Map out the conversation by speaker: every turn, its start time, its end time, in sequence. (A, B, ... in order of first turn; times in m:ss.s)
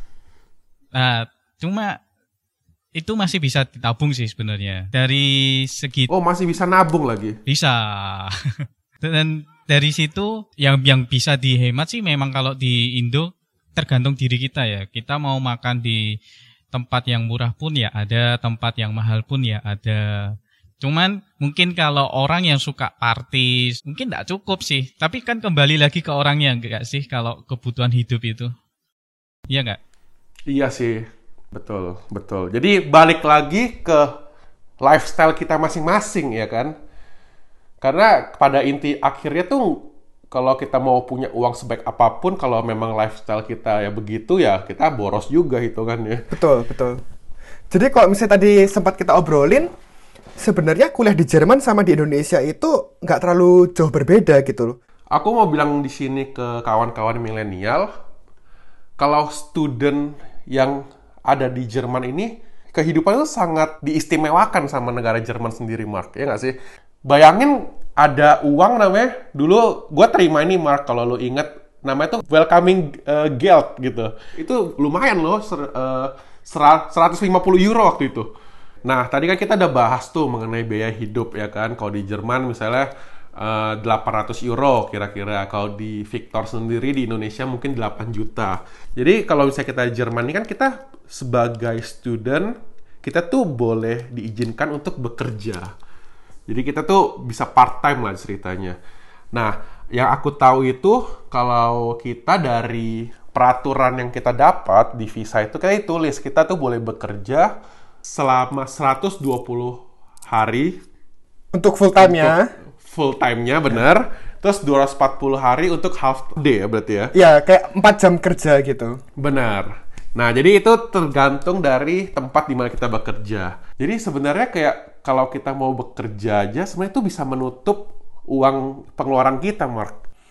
0:00.9-0:02.0 A
0:03.0-0:06.1 A
0:06.1-0:07.4 B
0:07.5-0:08.3 A
0:09.0-0:16.2 A
0:16.7-0:28.5 A
0:29.5-0:29.8 A
0:30.5-0:34.1 B
0:34.8-0:36.7 B
0:37.8-0:46.2 B
0:46.3-0:47.0 C
0:47.7-0:49.7 C
0:50.4-0:54.8 C
0:55.1-0:57.9 B
0:59.0-1:06.5 B
1:07.0-1:18.3 B
1:18.8-1:35.7 B
1:36.5-1:38.8 B
1:39.3-1:47.5 B
1:48.0-1:50.8 B
1:51.5-1:52.5 C
1:52.0-1:57.1 B
1:57.1-1:59.0 C
1:59.2-2:10.0 B